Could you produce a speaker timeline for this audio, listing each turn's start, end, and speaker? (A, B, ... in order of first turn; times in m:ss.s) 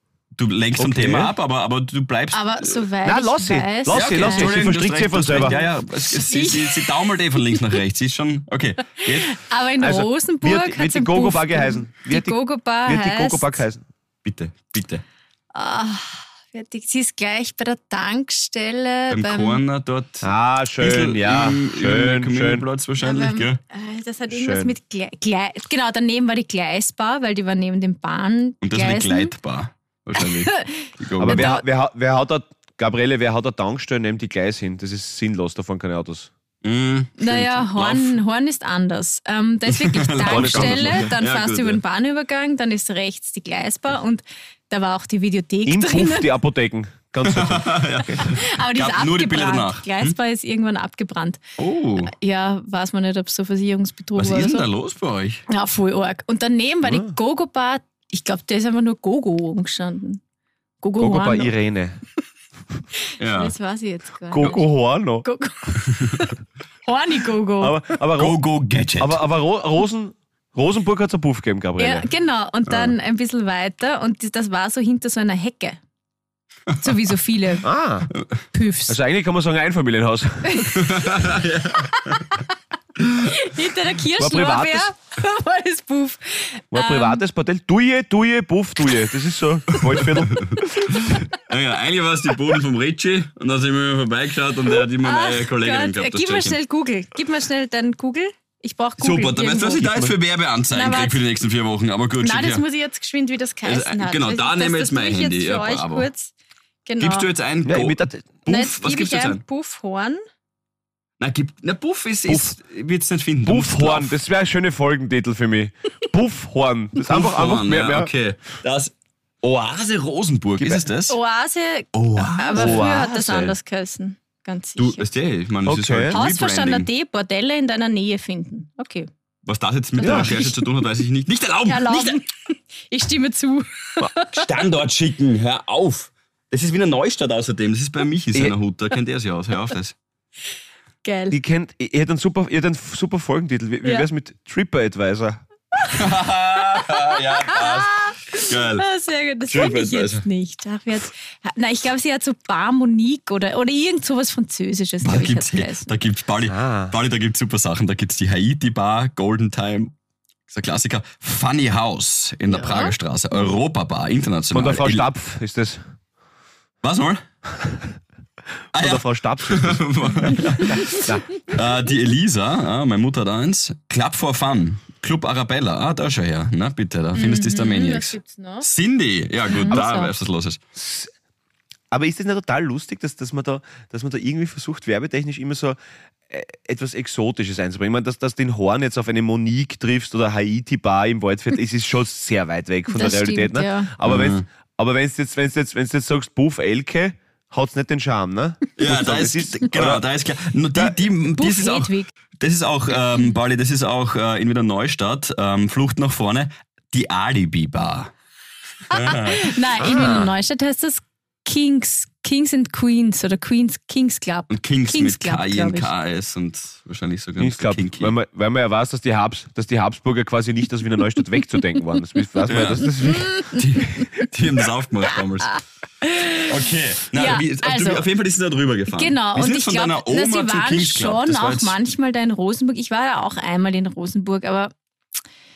0:00.4-0:02.8 A
0:00.8-0:01.3 B
0:02.3-0:04.5 C
0:03.0-0:05.6 B
0:03.9-0:09.4 A
0:05.4-0:06.9 C
0:09.0-0:13.5 C
0:09.8-0:13.8 B
0:14.2-0:15.0 A
0:15.5-0:19.6 C
0:19.1-0:23.6 A
0:20.2-0:22.6 B
0:23.0-0:29.3 C
0:24.3-0:24.7 B
0:28.6-0:31.6 A
0:30.2-0:31.6 C
0:31.2-0:36.3 B
0:36.6-0:38.2 A
0:37.2-0:46.3 C
0:39.7-0:41.8 A
0:40.2-0:41.1 B
0:45.6-0:48.2 B
0:47.2-0:50.2 A
0:48.2-0:51.4 C
0:51.6-0:52.1 A
0:52.0-0:54.6 C
0:54.2-0:55.4 A
0:55.5-1:00.2 C
0:56.8-0:57.2 B
1:00.8-1:01.5 C
1:01.0-1:02.0 B
1:03.1-1:04.7 C
1:03.2-1:03.5 A
1:04.3-1:05.2 B
1:05.2-1:07.8 C
1:07.6-1:08.4 B
1:08.2-1:09.2 A
1:09.0-1:12.1 B
1:11.8-1:15.8 C
1:12.7-1:12.9 B
1:16.8-1:17.7 C
1:17.6-1:18.1 B
1:18.5-1:19.0 C
1:18.9-1:20.7 B
1:20.5-1:21.0 C
1:20.7-1:22.4 A
1:21.8-1:22.4 C
1:23.0-1:23.2 A
1:23.2-1:27.2 C
1:24.1-1:24.9 B
1:26.7-1:31.2 B
1:30.0-1:36.6 A
1:34.7-1:39.9 C
1:39.0-1:42.6 A
1:39.8-1:40.1 B
1:40.7-1:41.2 C
1:42.2-1:46.3 C
1:43.6-1:46.1 A
1:46.8-1:47.3 C
1:47.0-1:49.4 A
1:47.6-1:48.4 B
1:48.4-1:50.2 C
1:51.2-1:54.2 A
1:52.3-1:52.5 B
1:53.4-1:58.1 B
1:57.0-2:01.2 A
2:00.6-2:00.8 B
2:01.1-2:05.1 C
2:01.9-2:03.5 A
2:02.5-2:03.1 B
2:04.8-2:06.9 A
2:05.7-2:06.2 B
2:06.1-2:09.1 C
2:09.4-2:12.2 A
2:10.0-2:10.6 C
2:10.0-2:10.4 B
2:11.7-2:14.5 C
2:14.3-2:20.0 A
2:21.0-2:21.4 C
2:21.3-2:25.4 B
2:25.9-2:28.8 A
2:26.7-2:35.9 C
2:29.4-2:30.2 A
2:35.0-2:39.9 A
2:36.4-2:36.9 B
2:40.5-2:45.0 A
2:42.5-2:42.9 C
2:44.5-2:45.8 B
2:46.8-2:47.2 A
2:48.7-3:00.6 A
2:48.7-2:49.8 B
2:50.6-2:51.0 C
2:50.7-2:51.2 B
2:57.1-2:58.6 C
2:59.5-3:00.1 C
2:59.7-3:00.0 B
3:00.7-3:01.1 B
3:01.9-3:05.8 B
3:06.3-3:20.0 B
3:12.9-3:13.9 C
3:14.0-3:14.4 A
3:18.8-3:28.1 A
3:21.3-3:22.1 C
3:28.9-3:30.3 A
3:28.9-3:35.9 C
3:29.8-3:30.2 B
3:34.5-3:38.1 A
3:37.4-3:43.4 B
3:42.5-3:43.0 A
3:43.0-3:44.3 C
3:43.5-3:45.6 A
3:45.4-3:46.6 C
3:46.4-3:51.8 A
3:47.1-3:48.1 C
3:48.9-3:54.7 C